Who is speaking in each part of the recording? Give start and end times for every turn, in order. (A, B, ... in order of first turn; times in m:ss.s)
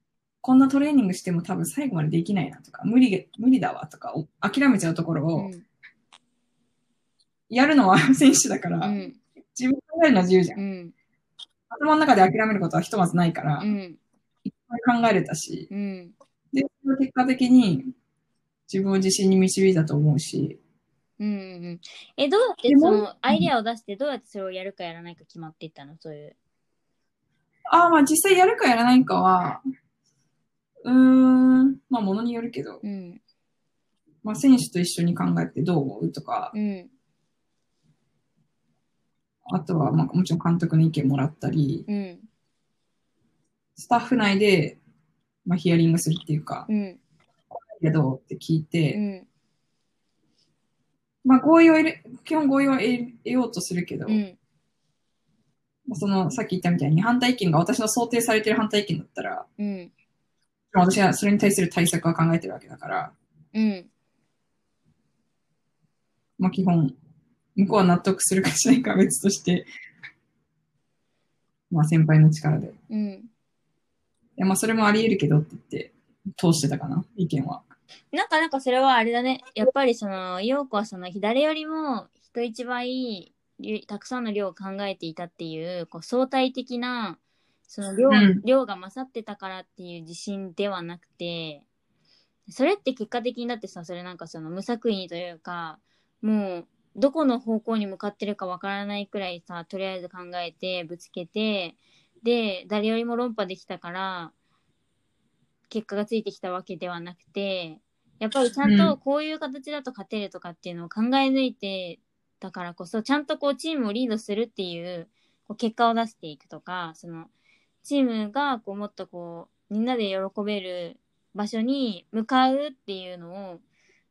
0:00.4-0:05.5 A
0:05.4-0:05.6 B
0:07.5-0:08.9 A
0:08.8-0:09.2 B
0:09.5-0:10.6 A
0:10.6-0:10.9 B
0:11.7-0:13.7 A
0:13.6-0:14.0 B
0:14.4-0:15.7 A
0:15.7-0:16.1 B
0:16.5-0:17.9 A
0:18.7-0:20.6 A
0:21.2-0:26.4 B
0:22.7-0:23.5 A
0:27.7-0:29.6 A
0:30.8-0:32.8 A
0:32.8-0:33.2 B
0:34.2-0:36.5 A
0:36.5-0:36.9 B
0:39.5-0:41.8 A
0:41.9-0:42.3 B
0:43.8-0:44.8 A
0:45.4-0:46.7 A
0:46.7-0:47.0 B
0:47.5-0:49.0 A
0:48.9-0:49.2 B
0:51.2-0:54.2 A
0:54.1-0:54.4 B
0:55.9-0:59.4 A
0:59.6-0:59.9 B
1:00.7-1:03.1 A
1:03.5-1:03.9 B
1:06.4-1:06.9 A
1:07.6-1:09.6 A
1:11.7-1:12.7 A
1:12.9-1:13.3 B
1:14.4-1:17.6 A
1:18.1-1:31.6 B
1:28.1-1:28.4 A
1:32.5-1:44.3 B
1:45.7-1:57.3 B
1:48.6-1:49.0 A
1:57.8-2:03.6 B